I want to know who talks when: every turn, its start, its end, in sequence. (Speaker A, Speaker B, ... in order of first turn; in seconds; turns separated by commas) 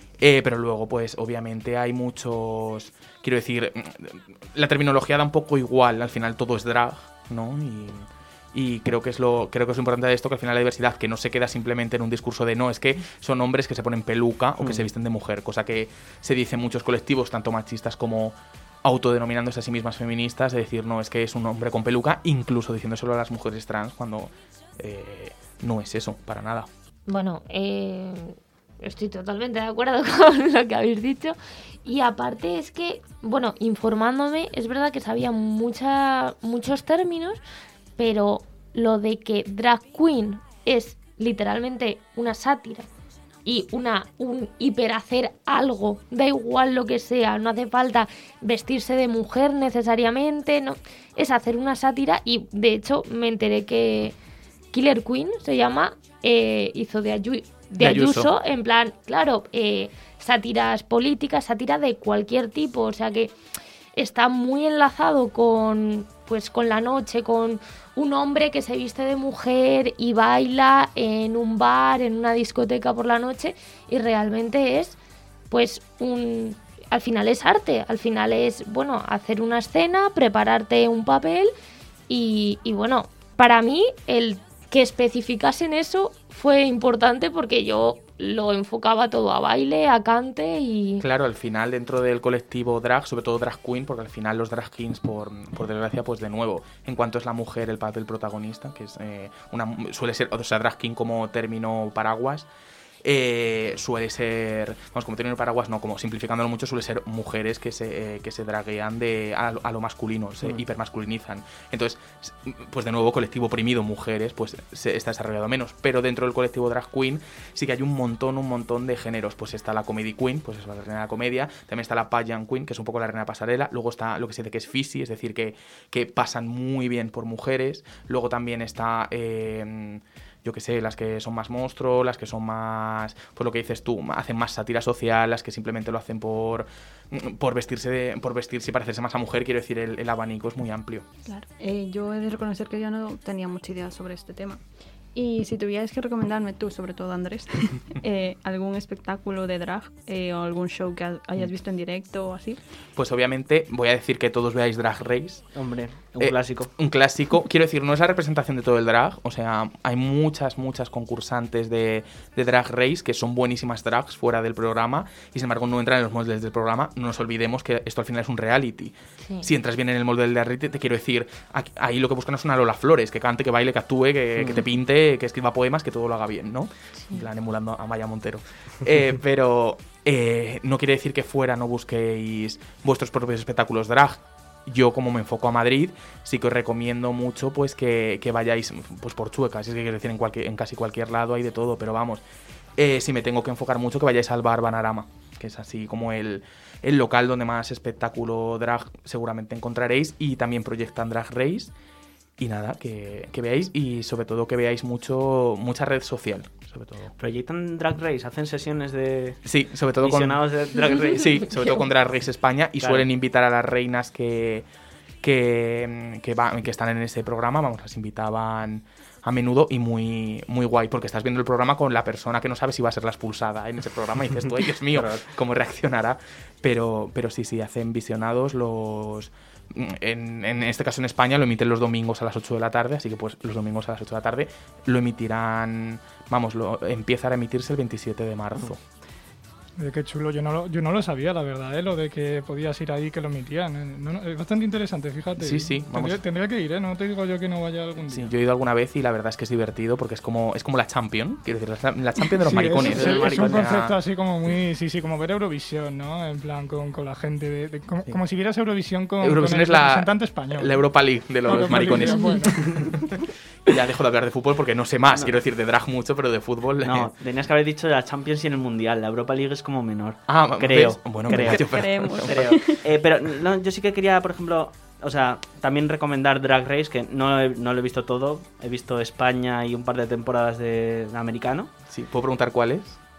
Speaker A: 0.2-26.7, Speaker B: 14.6-14.9, Speaker C: 27.1-37.4, Speaker C: 38.0-42.9, Speaker C: 43.5-54.1, Speaker C: 54.7-63.3, Speaker A: 57.8-58.3, Speaker C: 64.0-75.0, Speaker C: 75.5-81.5, Speaker C: 82.1-91.0, Speaker A: 91.0-102.5, Speaker A: 103.0-141.1, Speaker D: 141.3-144.6, Speaker D: 145.2-152.6, Speaker A: 153.0-155.5, Speaker B: 155.6-156.7, Speaker A: 156.2-192.2, Speaker C: 169.2-169.5, Speaker B: 174.4-174.7, Speaker A: 192.8-201.7, Speaker A: 202.4-207.1, Speaker B: 207.2-209.4, Speaker A: 209.4-214.7, Speaker B: 210.0-211.7, Speaker B: 212.8-213.1, Speaker A: 215.2-238.8, Speaker B: 224.9-225.2, Speaker E: 239.8-248.3, Speaker A: 245.4-246.2, Speaker A: 248.1-254.0, Speaker E: 252.4-260.8, Speaker B: 252.8-253.7, Speaker A: 259.2-263.1, Speaker E: 261.4-263.0, Speaker A: 263.7-267.1, Speaker B: 266.8-281.7, Speaker A: 270.3-272.4, Speaker D: 271.3-272.8, Speaker A: 281.9-283.0